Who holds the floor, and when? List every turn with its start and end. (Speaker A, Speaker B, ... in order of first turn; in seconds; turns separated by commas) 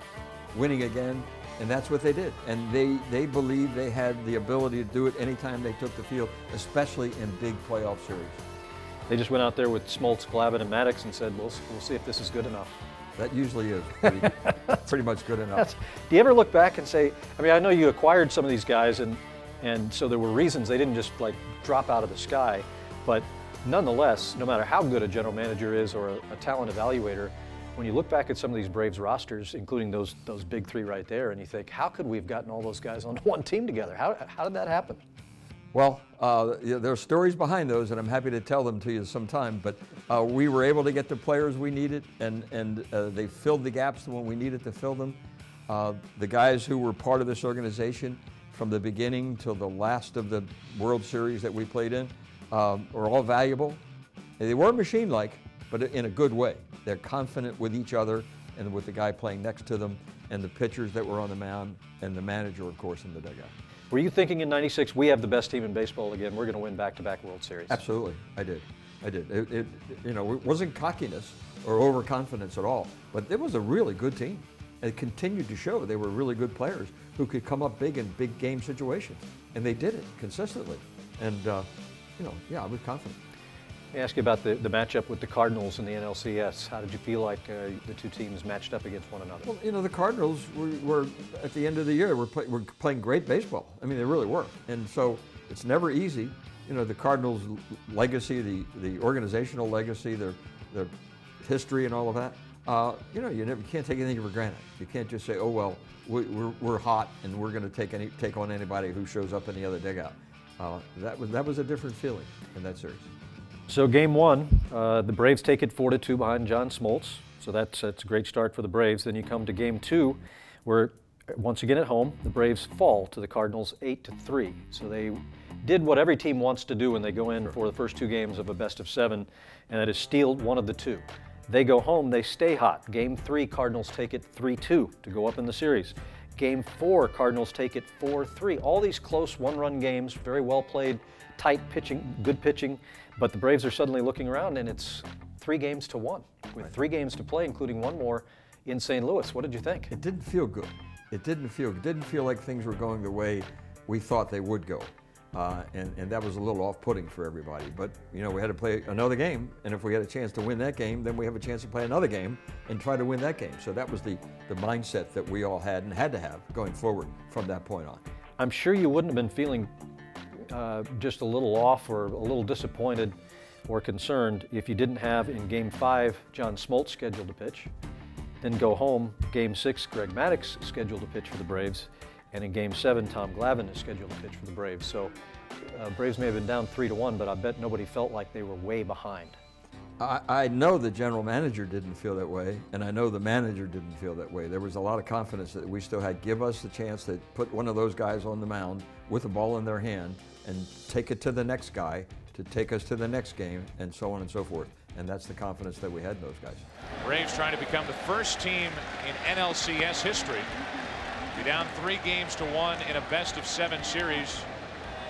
Speaker A: 0.5-8.4, Speaker B: 9.1-12.8, Speaker A: 13.2-15.7, Speaker B: 15.6-35.0, Speaker A: 35.7-53.8, Speaker A: 54.4-63.5, Speaker B: 63.9-67.8, Speaker A: 67.7-81.7, Speaker A: 82.2-83.2, Speaker B: 83.9-89.5, Speaker A: 89.4-113.1, Speaker B: 113.7-149.9, Speaker A: 149.9-168.0, Speaker B: 168.4-169.7, Speaker B: 170.5-173.2, Speaker B: 173.7-177.7, Speaker B: 178.4-189.4, Speaker A: 190.0-206.7, Speaker C: 207.0-210.5, Speaker C: 211.3-214.5